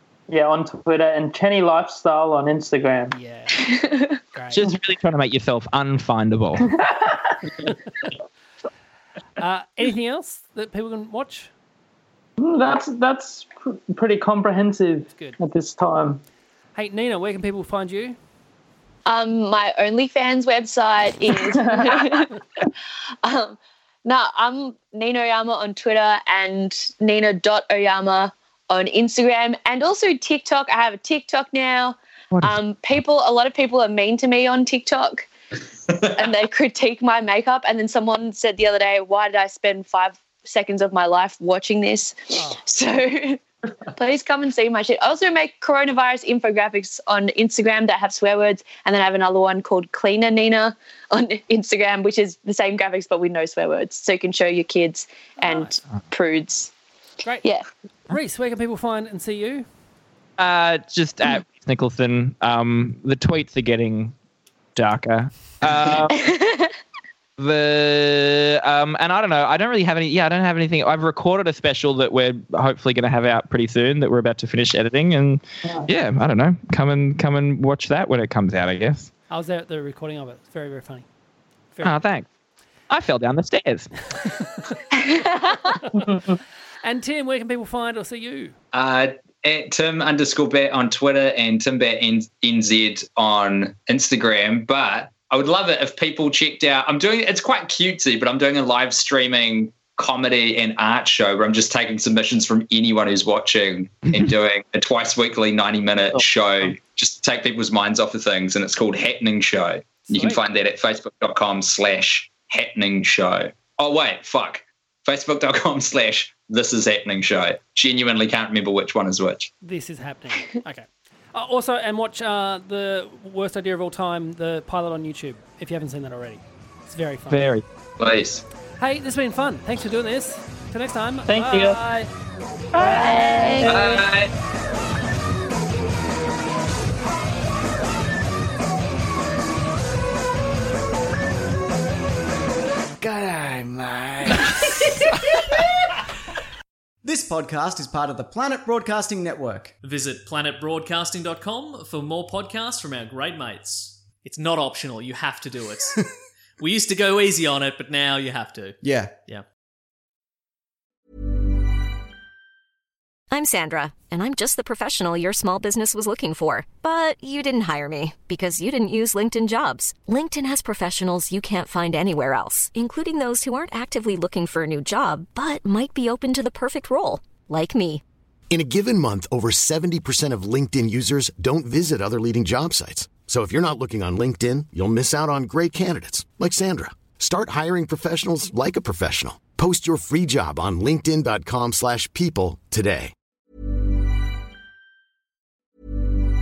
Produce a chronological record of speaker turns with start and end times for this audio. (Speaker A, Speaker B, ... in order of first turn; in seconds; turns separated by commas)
Speaker A: 0.3-3.1, Speaker B: 3.1-3.7, Speaker C: 3.7-4.1, Speaker B: 4.3-4.7, Speaker D: 4.5-6.7, Speaker B: 9.4-11.5, Speaker A: 12.4-16.2, Speaker B: 16.7-18.2, Speaker C: 19.1-22.3, Speaker A: 21.4-21.9, Speaker C: 23.2-35.3, Speaker D: 32.3-32.6, Speaker C: 36.1-43.4, Speaker C: 43.9-56.7, Speaker B: 55.4-55.7, Speaker B: 58.1-59.6, Speaker D: 60.4-64.1, Speaker D: 64.7-66.3, Speaker C: 66.2-66.7, Speaker D: 67.4-79.1, Speaker B: 79.3-81.0, Speaker D: 81.8-82.3, Speaker D: 82.9-83.9, Speaker C: 84.9-85.8, Speaker A: 86.1-86.3, Speaker B: 86.8-88.5, Speaker E: 88.7-119.5, Speaker A: 106.1-106.7, Speaker B: 110.1-110.4, Speaker B: 119.6-127.5, Speaker D: 127.3-127.6, Speaker E: 128.0-128.4, Speaker B: 128.8-132.1, Speaker A: 131.3-131.8, Speaker C: 132.8-133.7, Speaker B: 132.8-133.8, Speaker A: 133.6-134.0, Speaker E: 133.7-134.3, Speaker F: 143.0-144.7, Speaker F: 147.0-149.7, Speaker G: 149.8-156.0, Speaker G: 156.6-159.5, Speaker F: 158.8-159.2, Speaker H: 163.3-178.0, Speaker I: 178.5-193.1